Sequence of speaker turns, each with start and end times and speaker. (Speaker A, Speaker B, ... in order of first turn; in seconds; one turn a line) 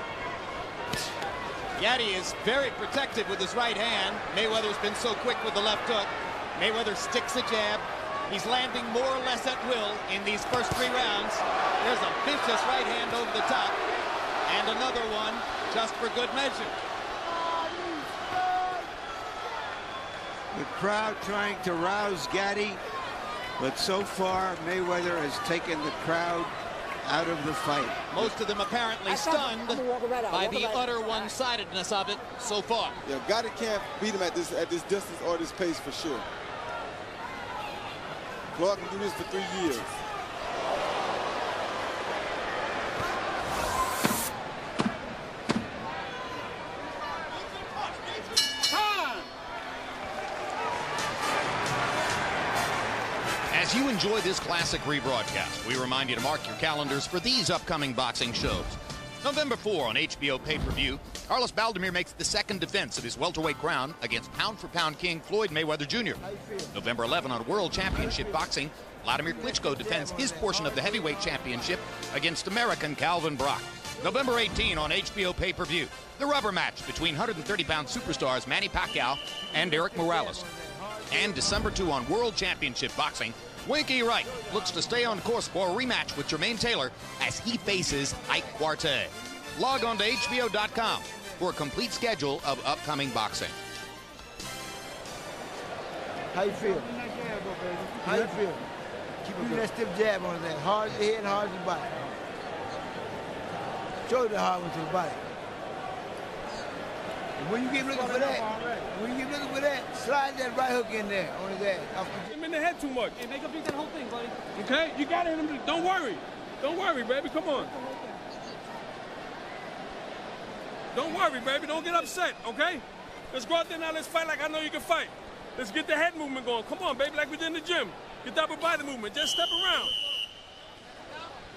Speaker A: 1.8-13.8
Speaker A: 14.4-16.7
Speaker B: 20.5-22.8
Speaker B: 23.6-28.3
Speaker A: 28.1-33.0
Speaker C: 29.1-31.3
Speaker D: 33.0-36.2
Speaker D: 38.5-39.9
Speaker C: 48.7-49.3
Speaker A: 53.5-80.4
Speaker E: 66.2-66.8
Speaker E: 67.9-68.5
Speaker E: 69.2-71.7
Speaker E: 79.3-81.7
Speaker A: 81.1-93.5
Speaker E: 84.2-85.2
Speaker E: 96.3-97.0
Speaker C: 96.7-98.4
Speaker E: 98.0-98.7
Speaker E: 99.2-102.1
Speaker E: 104.0-105.2
Speaker E: 107.4-112.3
Speaker C: 107.8-108.9
Speaker F: 112.3-113.4
Speaker C: 113.3-114.4
Speaker F: 114.5-117.8
Speaker C: 117.8-118.1
Speaker F: 120.9-129.9